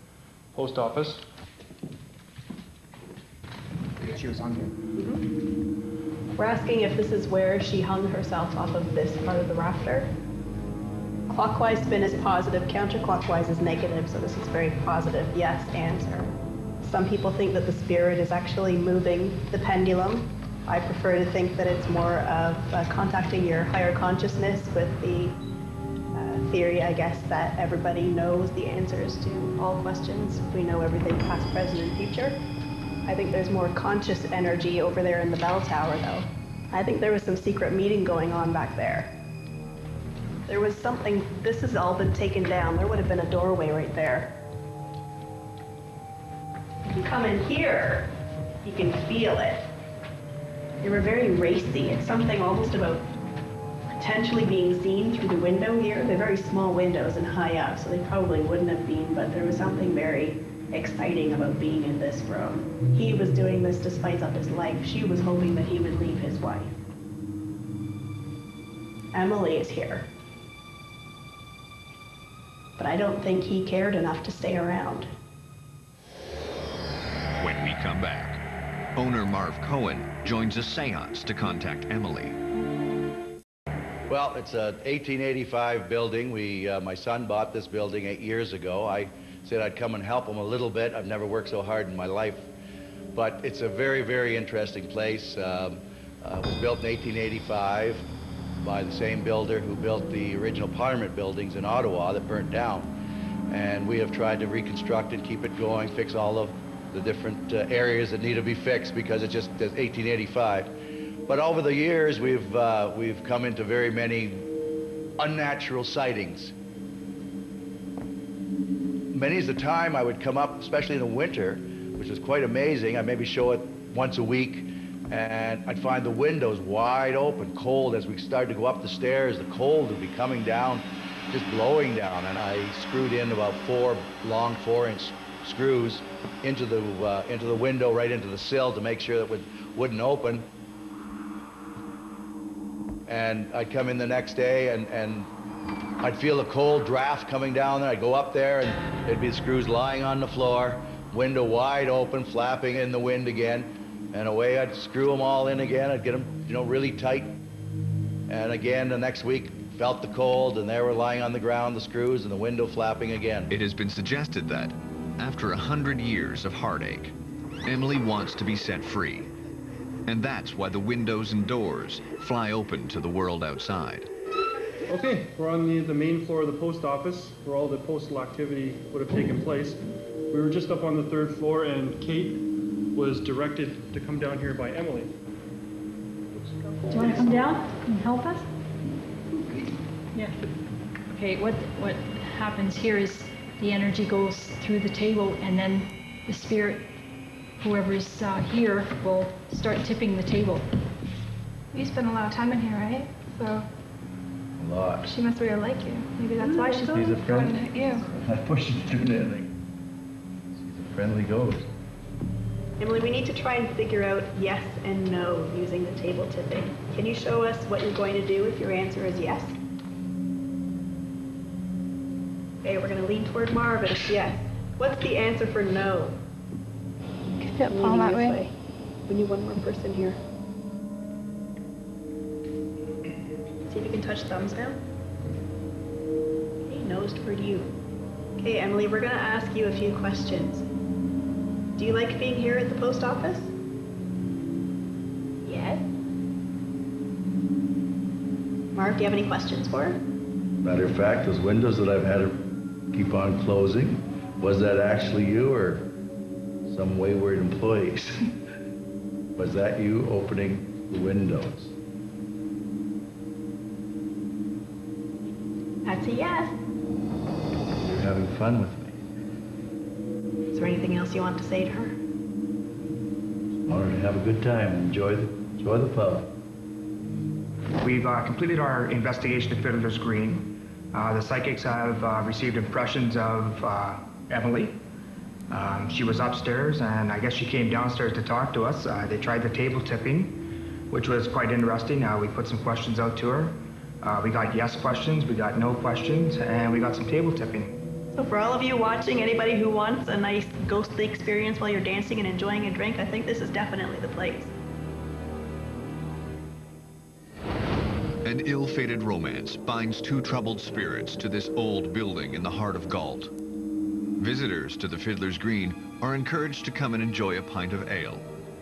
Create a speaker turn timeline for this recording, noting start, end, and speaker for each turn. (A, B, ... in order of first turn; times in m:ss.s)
0:00.5-0:01.2 A
0:04.0-0:04.8 B
0:05.0-0:05.2 C
0:06.4-0:10.1 C
0:11.3-0:25.4 C
0:26.1-0:32.4 C
0:33.1-0:39.1 C
0:40.5-0:44.3 C
0:46.9-0:48.1 C
0:48.6-0:49.6 C
0:50.8-0:53.0 C
0:53.9-1:06.8 C
1:09.1-1:10.1 C
1:12.8-1:15.1 C
1:17.4-1:18.4 D
1:19.0-1:22.4 D
1:24.1-1:32.5 E
1:33.2-1:38.1 E
1:38.6-1:42.9 E
1:43.5-1:50.7 E
1:51.3-1:54.5 E
1:55.2-1:56.5 E
1:59.1-2:20.5 E
2:23.1-2:25.3 E
2:26.0-2:37.4 E
2:38.3-2:43.5 E
2:43.5-2:47.2 D
2:47.7-2:49.3 D
2:50.1-2:54.1 D
2:54.9-3:05.1 A
3:06.9-3:08.5 F
3:07.0-3:07.4 A
3:11.1-3:16.9 F
3:17.6-3:20.7 F
3:21.7-3:23.7 G
3:24.6-3:25.1 E
3:25.1-3:28.0 G
3:26.4-3:26.8 C
3:26.9-3:29.5 E
3:30.6-3:31.7 E
3:32.8-3:39.6 C
3:42.6-3:46.2 C
3:47.4-3:48.4 G
3:47.7-3:48.5 C
3:49.1-3:50.2 C
3:53.7-3:54.8 C
3:56.7-3:57.7 C
3:58.4-4:00.6 C
4:01.8-4:03.5 C
4:05.4-4:05.8 C
4:08.8-4:10.0 C
4:10.6-4:15.9 E
4:16.7-4:18.3 E
4:19.4-4:21.7 E
4:25.8-4:26.5 C
4:27.8-4:29.0 E
4:30.5-4:32.0 C
4:33.7-4:36.3 E
4:37.8-4:44.8 B
4:45.5-4:50.4 B
4:50.9-4:57.8 B
4:58.1-5:04.5 C
5:08.2-5:13.3 D
5:14.2-5:18.2 D